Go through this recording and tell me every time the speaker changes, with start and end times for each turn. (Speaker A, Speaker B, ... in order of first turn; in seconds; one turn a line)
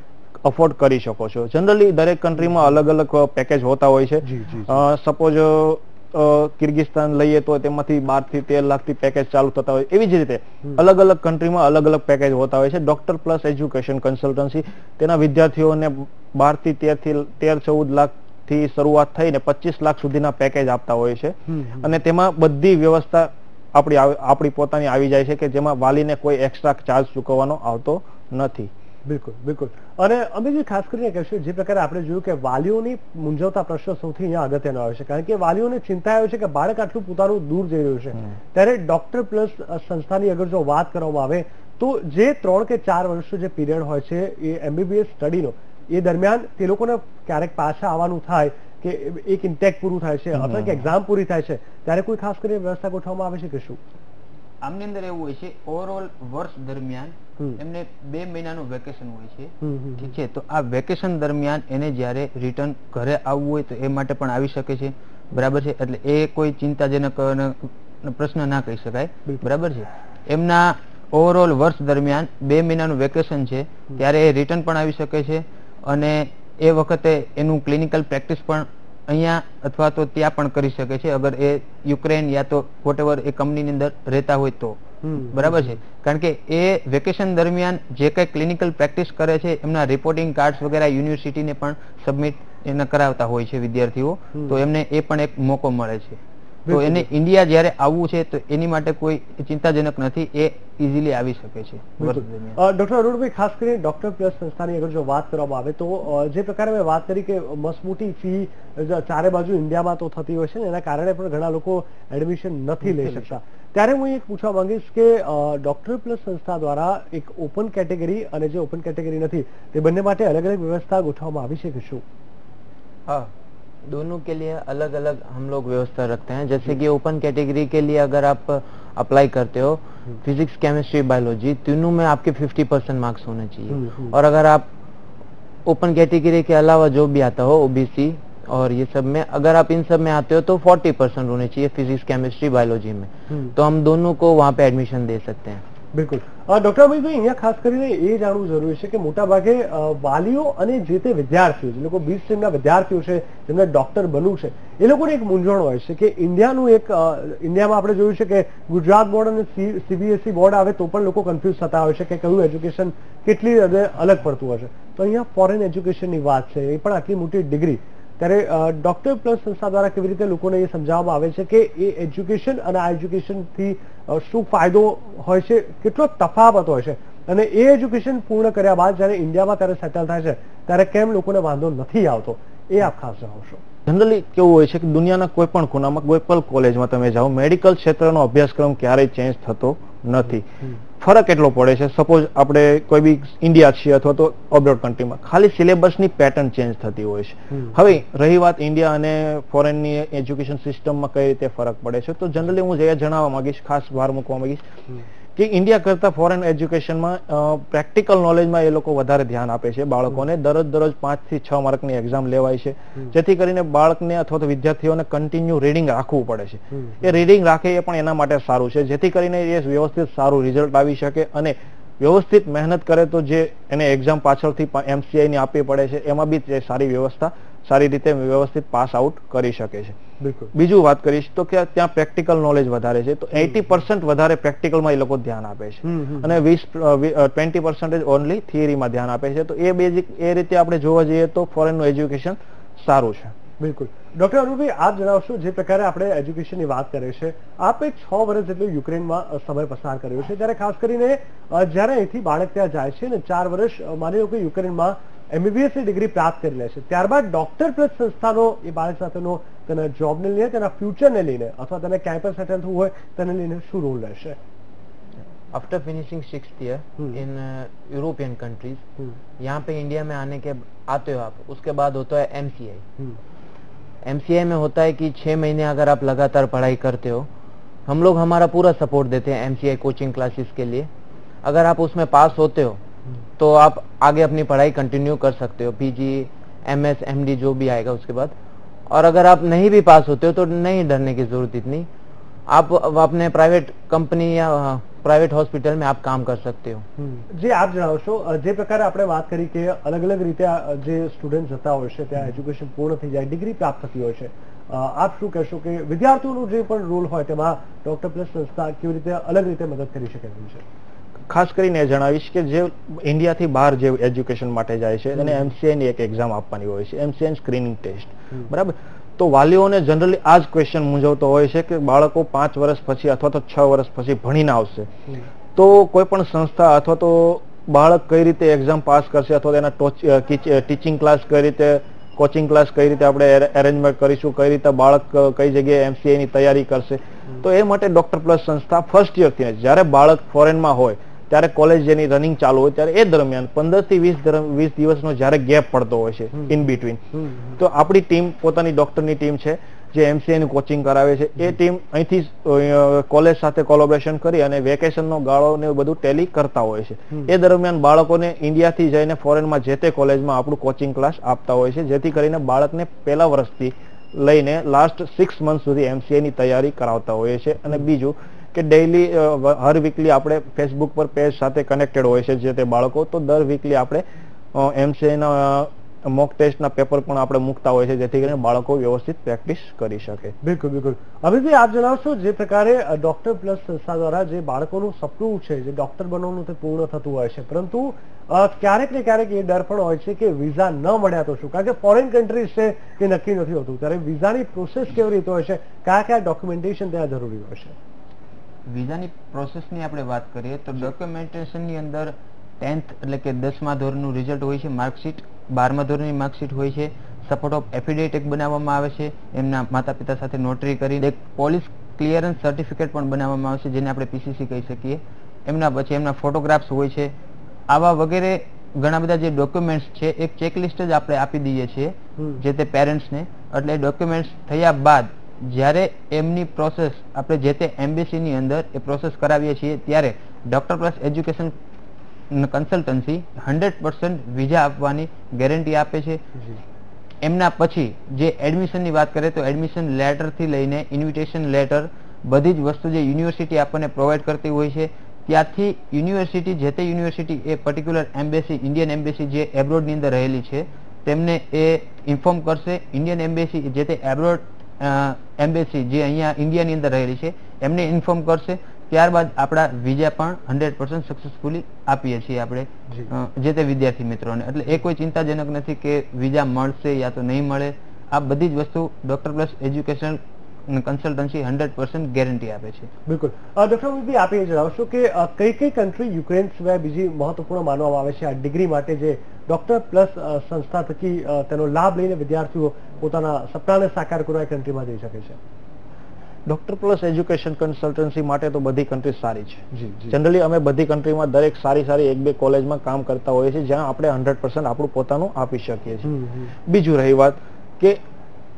Speaker A: 0.4-28.7
Speaker B: 4.2-4.8
Speaker B: 21.5-21.9
Speaker B: 29.1-53.8
Speaker A: 50.4-50.9
Speaker C: 54.6-102.6
Speaker B: 59.6-60.0
Speaker B: 85.0-85.8
Speaker B: 94.3-94.6
Speaker B: 96.7-97.1
Speaker B: 102.0-122.0
Speaker D: 123.8-134.7
Speaker B: 133.7-134.1
Speaker D: 135.7-145.6
Speaker B: 145.9-183.6
Speaker A: 183.8-190.4
Speaker A: 191.0-204.6
Speaker A: 205.3-230.0
Speaker B: 230.2-230.5
Speaker A: 230.5-243.3
Speaker B: 235.8-236.3
Speaker B: 243.6-264.4
Speaker D: 265.5-268.8
Speaker D: 269.4-272.8
Speaker D: 274.0-277.3
Speaker D: 277.9-280.9
Speaker D: 281.4-282.8
Speaker D: 283.4-288.3
Speaker D: 288.9-291.9
Speaker D: 292.5-296.9
Speaker B: 297.1-310.6
Speaker A: 311.3-324.9
Speaker A: 325.5-374.0
Speaker A: 374.5-380.3
Speaker B: 380.4-397.7
Speaker C: 398.6-417.1
Speaker C: 417.7-431.5
Speaker C: 432.3-436.2
Speaker C: 437.2-472.9
Speaker B: 473.1-485.4
Speaker A: 486.4-496.1
Speaker B: 489.7-490.1
Speaker B: 496.1-496.5
Speaker A: 496.6-498.0